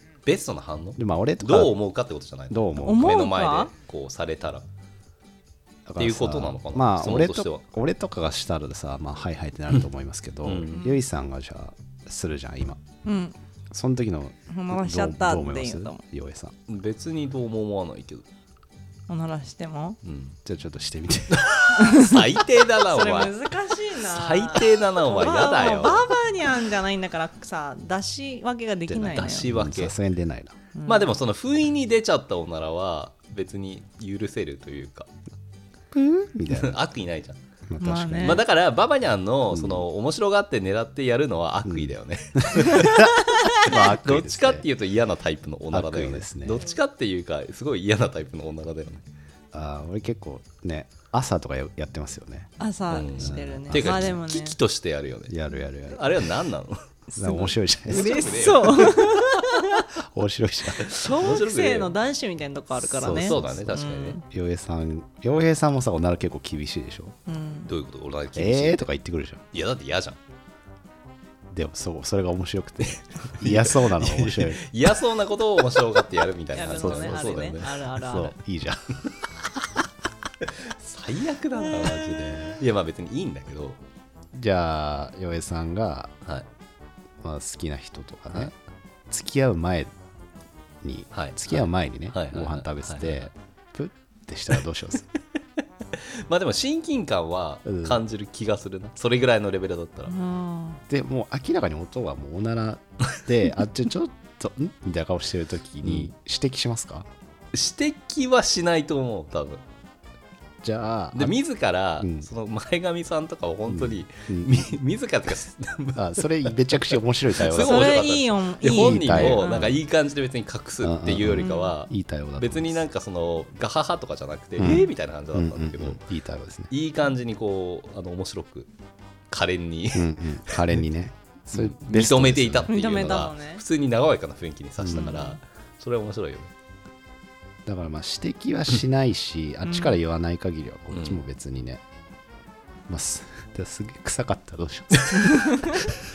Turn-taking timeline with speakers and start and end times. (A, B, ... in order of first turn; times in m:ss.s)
0:00.3-0:04.6 A
0:01.0-0:01.7 B
0:02.5-0:03.0 B
0:02.8-0:03.7 C
0:05.9-0:12.8 B
0:06.0-0:07.6 A
0:10.4-0:10.8 A
0:13.0-0:13.4 C
0:13.7-0:16.6 B
0:14.5-0:16.0 C
0:16.7-0:18.2 A
0:19.1-0:20.0 C
0:20.0-0:20.4 A
0:20.4-0:21.5 B
0:21.3-0:23.4 A
0:21.8-0:22.2 C
0:22.8-0:29.5 C
0:24.0-0:26.2 A
0:28.9-0:30.0 A
0:29.4-0:30.6 B
0:30.8-0:31.1 C
0:30.9-0:35.1 A
0:35.9-0:36.7 B
0:36.5-0:37.4 A
0:37.7-0:38.4 B
0:37.8-0:38.4 C
0:38.2-0:49.0 A
0:39.5-0:39.9 B
0:41.6-0:44.7 B
0:42.6-0:43.8 C
0:45.7-0:46.6 B
0:49.5-0:52.5 B
0:52.6-0:54.6 C
0:52.9-0:55.4 A
0:53.2-0:54.2 B
0:55.3-0:56.3 B
0:55.9-0:56.8 A
0:57.1-0:59.8 C
0:57.2-0:58.3 B
0:57.9-0:59.3 A
1:00.0-1:00.9 B
1:00.8-1:01.9 A
1:00.9-1:04.2 C
1:02.9-1:04.2 A
1:03.0-1:03.5 B
1:04.3-1:07.2 B
1:07.3-1:07.7 C
1:07.7-1:08.9 A
1:08.4-1:09.4 B
1:09.5-1:10.2 A
1:11.5-1:14.6 B
1:13.3-1:17.7 A
1:16.6-1:18.3 C
1:16.8-1:19.7 B
1:20.5-1:23.8 A
1:22.1-1:22.6 B
1:24.3-1:26.1 B
1:27.2-1:28.5 B
1:29.1-1:29.9 B
1:30.8-1:35.1 B
1:31.1-1:33.3 A
1:35.9-1:40.2 A
1:37.7-1:38.0 B
1:40.1-1:40.8 C
1:40.9-1:47.1 B
1:47.5-1:49.6 A
1:50.6-1:51.4 B
1:51.2-1:56.2 A
1:52.0-1:52.3 B
1:53.7-1:54.7 B
1:56.0-1:58.1 B
1:57.4-2:06.0 A
1:57.5-1:59.8 C
1:58.6-1:59.8 B
2:00.8-2:02.8 B
2:01.4-2:01.7 C
2:04.6-2:06.7 B
2:04.6-2:04.9 C
2:06.7-2:08.7 A
2:09.3-2:10.8 A
2:09.9-2:12.7 B
2:11.5-2:16.5 A
2:12.7-2:13.6 C
2:14.8-2:15.2 B
2:14.9-2:15.4 C
2:17.7-2:21.8 B
2:19.7-2:19.9 C
2:20.9-2:21.2 A
2:22.9-2:25.8 B
2:25.0-2:25.3 A
2:25.4-2:25.7 C